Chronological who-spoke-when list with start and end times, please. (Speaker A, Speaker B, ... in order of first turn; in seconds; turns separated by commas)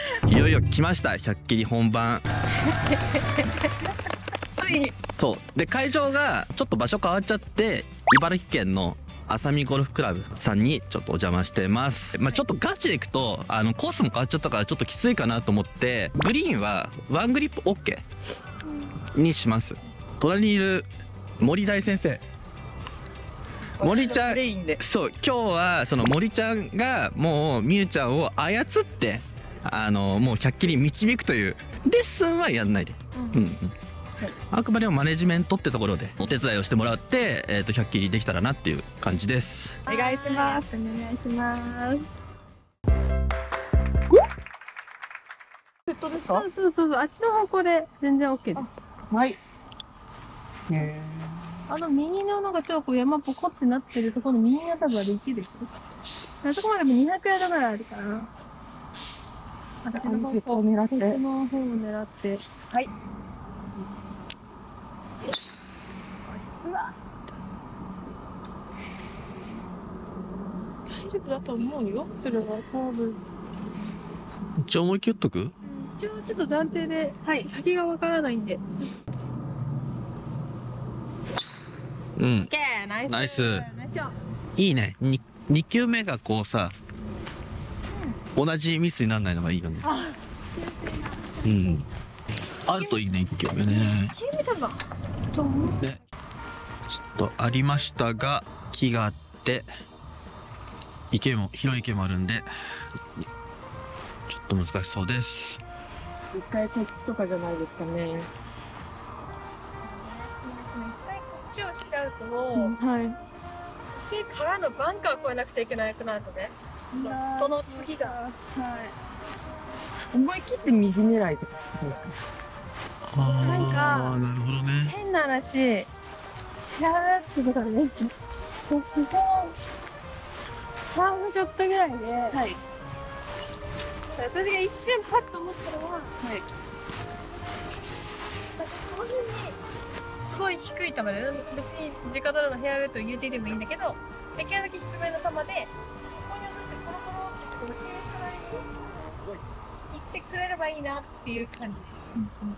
Speaker A: 0.3-2.2, Speaker B: 2.8-3.7, Speaker C: 4.5-4.9, Speaker A: 5.1-18.0, Speaker A: 19.1-20.9, Speaker A: 21.4-22.2, Speaker C: 23.8-24.8, Speaker A: 23.8-33.7, Speaker B: 33.1-33.4, Speaker A: 34.5-39.8, Speaker C: 39.9-40.7, Speaker B: 39.9-42.0, Speaker C: 45.9-46.5, Speaker B: 46.3-48.6, Speaker C: 48.5-49.4, Speaker C: 50.7-51.6, Speaker B: 51.7-55.7, Speaker B: 56.4-58.3, Speaker B: 59.8-62.4, Speaker C: 60.0-61.2, Speaker B: 66.4-66.8, Speaker B: 70.9-73.2, Speaker A: 74.6-75.5, Speaker B: 75.6-78.9, Speaker A: 82.2-82.5, Speaker B: 82.4-84.1, Speaker A: 83.0-83.7, Speaker A: 84.5-86.7, Speaker B: 87.9-88.2, Speaker A: 88.3-89.9, Speaker B: 89.8-91.2, Speaker A: 91.4-91.8, Speaker A: 92.7-94.1, Speaker B: 92.7-94.8, Speaker B: 95.3-95.8, Speaker A: 96.9-99.7, Speaker A: 101.1-102.5, Speaker A: 104.3-105.6, Speaker C: 106.3-108.3, Speaker B: 109.8-112.7, Speaker C: 112.5-113.2, Speaker B: 113.9-118.2, Speaker C: 116.9-118.9, Speaker C: 120.1-122.2, Speaker A: 123.1-124.9, Speaker B: 123.2-123.8, Speaker C: 123.4-124.2, Speaker B: 124.9-125.9, Speaker B: 126.7-128.1, Speaker B: 128.7-129.6, Speaker B: 130.9-132.4, Speaker C: 132.3-132.6, Speaker B: 134.1-136.2, Speaker B: 138.6-139.6, Speaker B: 140.2-148.9, Speaker B: 149.9-152.1